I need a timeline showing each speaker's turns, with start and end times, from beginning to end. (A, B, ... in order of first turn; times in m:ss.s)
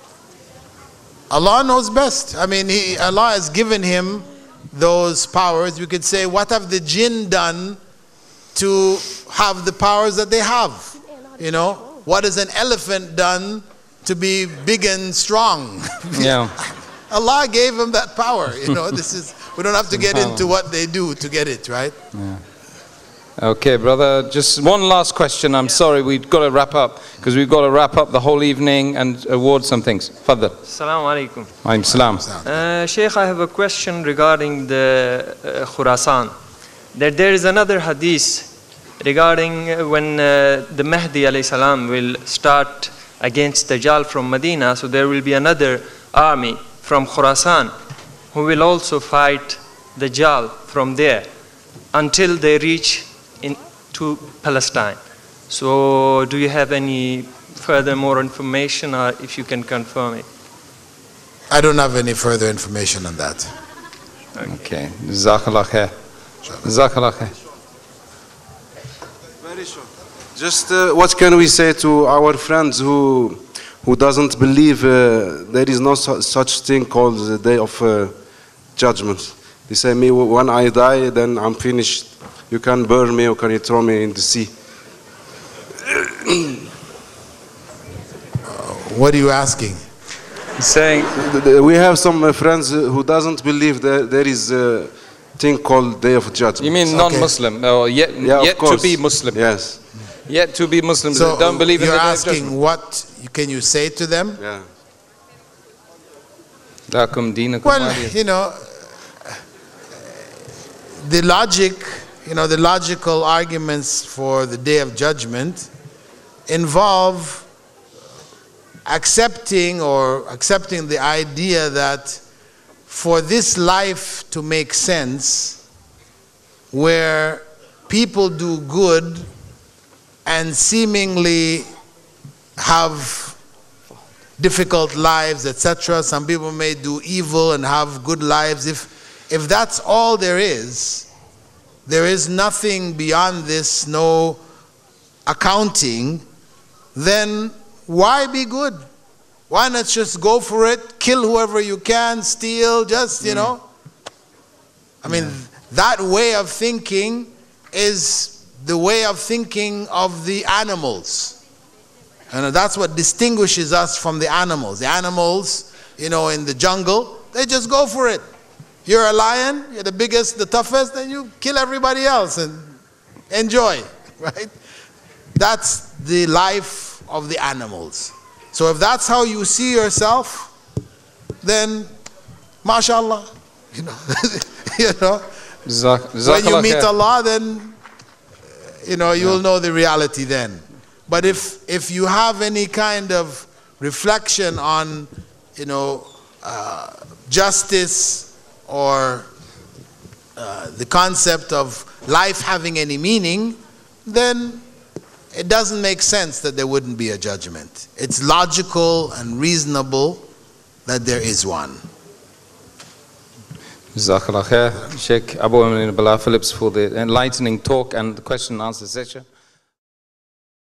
0:01.3-0:07.8 A
0:08.5-0:22.0 A
0:16.1-0:16.6 B
0:19.9-0:20.5 B
0:22.1-0:22.4 B
0:23.4-0:30.6 B
0:30.7-0:31.6 C
0:31.6-0:32.3 B
0:32.1-0:32.6 A
0:32.4-0:36.4 C
0:36.9-0:47.7 C
0:48.3-0:51.3 C
0:51.9-1:00.3 C
1:01.5-1:03.5 A
1:04.4-1:05.9 B
1:06.6-1:07.3 B
1:09.4-1:09.8 D
1:10.4-1:18.1 D
1:18.8-1:24.5 D
1:25.9-1:26.6 D
1:28.5-1:29.8 A
1:30.6-1:31.1 B
1:31.2-1:36.9 D
1:36.6-1:42.5 B
1:36.9-1:37.3 A
1:38.2-1:39.8 D
1:41.1-1:44.4 A
1:44.4-1:44.6 D
1:46.9-1:48.2 B
1:47.6-1:49.4 A
1:51.0-1:55.7 A
1:56.5-1:57.5 A
1:58.9-2:02.2 A
2:02.9-2:05.6 A
2:06.7-2:09.3 A
2:10.3-2:11.7 A
2:12.6-2:13.4 A
2:14.4-2:21.1 A
2:21.9-2:24.4 A
2:25.3-2:26.2 A
2:27.0-2:28.8 A
2:29.5-2:33.6 A
2:35.0-2:41.4 A
2:42.3-2:48.2 A
2:48.9-2:52.8 A
2:53.3-2:54.5 A
2:55.4-3:00.5 A
3:01.4-3:01.9 A
3:02.6-3:05.2 A
3:05.6-3:06.9 B
3:06.2-3:07.8 A
3:08.8-3:19.3 A
3:20.4-3:24.6 A
3:25.3-3:30.2 A
3:30.9-3:31.8 A
3:33.9-3:39.3 B